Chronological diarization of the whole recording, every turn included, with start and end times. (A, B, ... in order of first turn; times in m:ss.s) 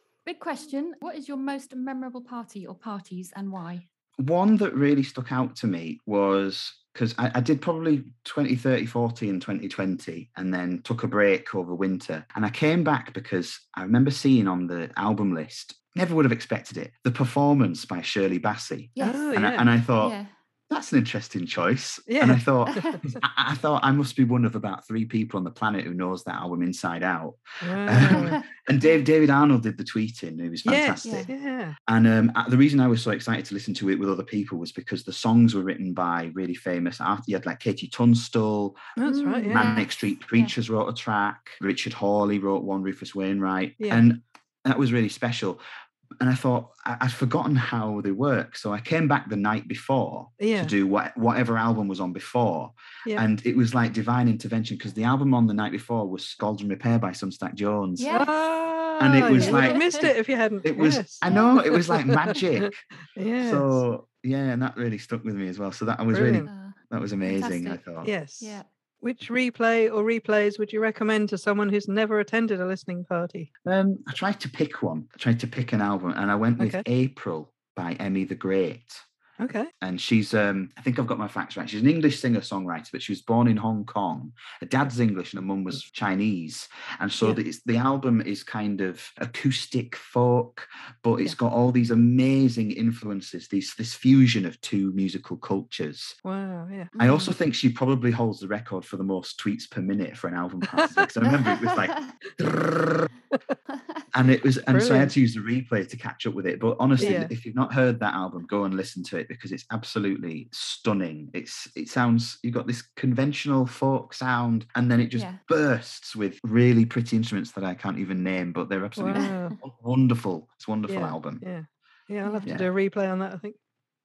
0:00.2-0:03.8 A
0:04.2-0:20.1 B
0:19.0-0:19.3 A
0:19.0-0:19.7 C
0:20.0-0:20.3 A
0:20.7-0:31.3 B
0:22.1-0:23.1 C
0:22.7-0:23.0 A
0:27.6-0:28.4 C
0:28.1-0:28.4 A
0:30.6-0:31.8 C
0:31.0-0:31.3 A
0:31.8-0:38.9 B
0:39.0-0:39.7 C
0:39.0-0:40.5 A
0:39.5-0:45.6 B
0:43.8-0:44.0 C
0:46.2-0:58.1 B
0:50.4-0:50.7 C
0:58.0-0:58.4 A
0:58.1-1:03.8 C
0:59.0-1:02.8 B
0:59.4-1:00.0 A
1:01.2-1:01.6 A
1:03.4-1:08.1 B
1:06.1-1:06.5 C
1:06.4-1:07.8 A
1:08.0-1:13.5 C
1:08.4-1:08.6 A
1:13.6-1:19.0 B
1:16.6-1:16.8 C
1:19.4-1:19.7 C
1:19.8-1:36.2 B
1:36.2-1:36.9 C
1:36.9-1:37.3 A
1:37.0-1:43.1 B
1:40.7-1:41.1 C
1:41.3-1:42.1 A
1:44.1-2:01.4 B
1:44.7-1:45.1 C
1:47.0-1:47.3 C
1:55.1-1:55.4 A
1:59.0-1:59.6 C
1:59.1-1:59.6 A
2:00.9-2:03.6 C
2:02.2-2:02.5 A